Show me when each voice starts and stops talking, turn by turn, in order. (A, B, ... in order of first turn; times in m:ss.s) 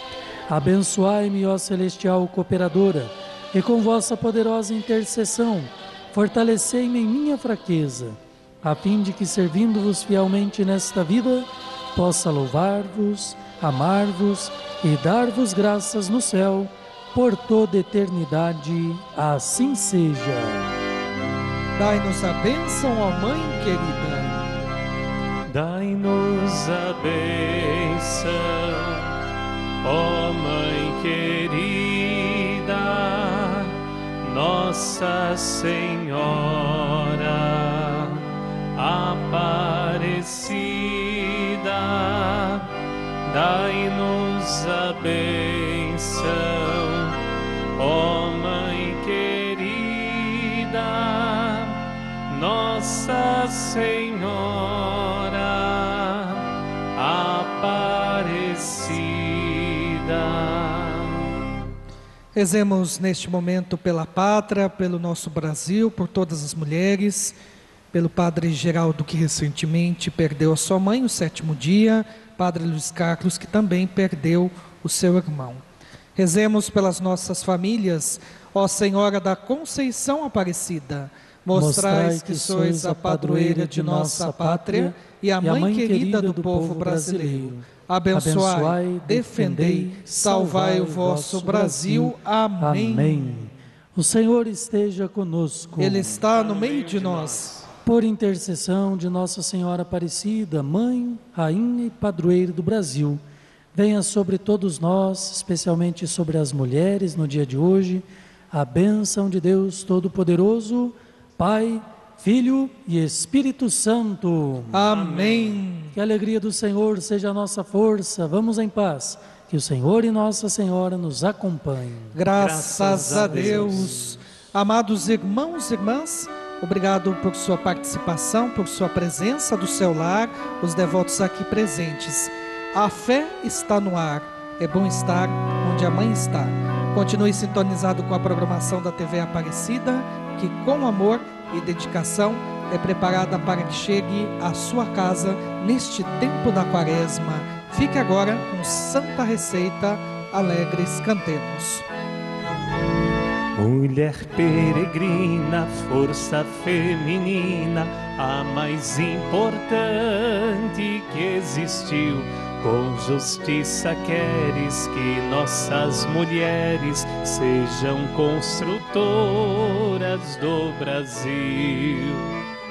0:00.5-0:20.8 A
0:21.8-0:24.4 B
0:25.5-0:29.2 C
0:29.8-0:42.7 C
0:43.2-0:47.2 C
0:47.8-1:01.3 C
1:02.3-1:07.4 B
1:07.9-1:15.6 B
1:16.2-1:33.4 B
1:21.5-1:36.2 A
1:35.8-1:37.6 B
1:36.2-1:37.7 C
1:37.8-1:43.2 A
1:43.7-1:54.8 A
1:54.7-1:55.9 B
1:54.9-1:55.6 C
1:55.9-2:02.1 A
2:02.1-2:31.8 B
2:02.3-2:04.1 C
2:03.0-2:03.9 A
2:33.5-2:52.3 C